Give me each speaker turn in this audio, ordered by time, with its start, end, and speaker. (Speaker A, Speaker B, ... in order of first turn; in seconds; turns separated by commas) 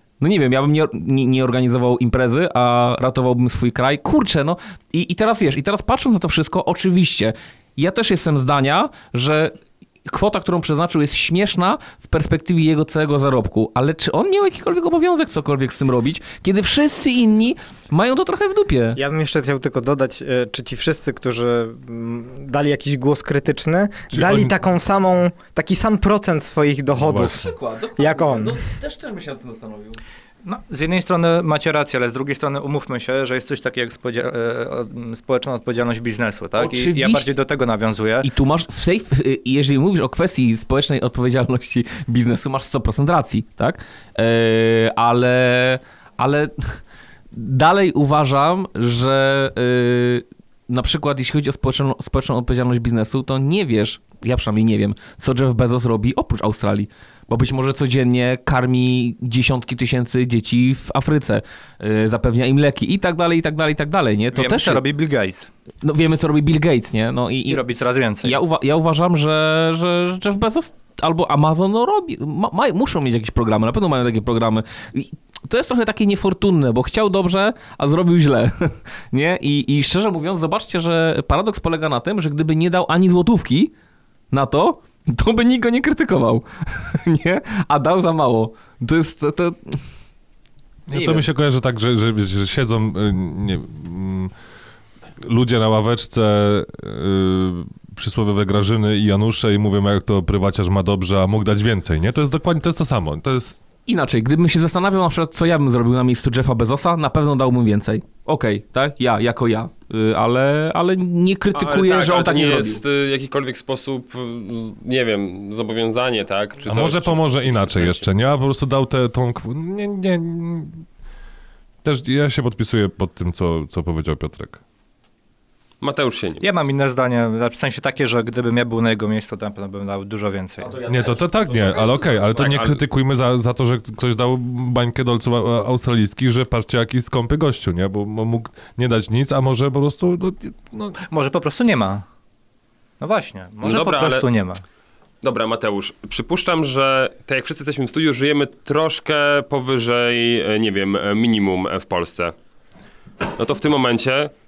Speaker A: 0.2-19.0, Speaker B: 18.9-28.6, Speaker C: 24.1-24.5, Speaker C: 27.0-27.4, Speaker A: 27.2-30.0, Speaker D: 30.4-38.3, Speaker A: 36.6-37.3, Speaker A: 38.2-46.8, Speaker A: 47.3-64.8, Speaker D: 64.3-65.5, Speaker A: 65.8-67.6, Speaker D: 67.5-68.4, Speaker A: 68.2-83.7, Speaker A: 84.3-89.8, Speaker C: 90.9-94.3, Speaker A: 90.9-91.3, Speaker C: 95.2-103.6, Speaker A: 103.9-112.8, Speaker E: 111.5-118.1, Speaker C: 116.7-120.8, Speaker C: 121.8-124.6, Speaker E: 125.8-126.5, Speaker D: 126.4-130.8, Speaker A: 130.6-132.4, Speaker C: 130.8-141.0, Speaker E: 132.3-132.8, Speaker D: 141.0-142.1, Speaker D: 143.0-144.6, Speaker E: 143.6-144.3, Speaker E: 145.2-152.3, Speaker E: 153.3-154.3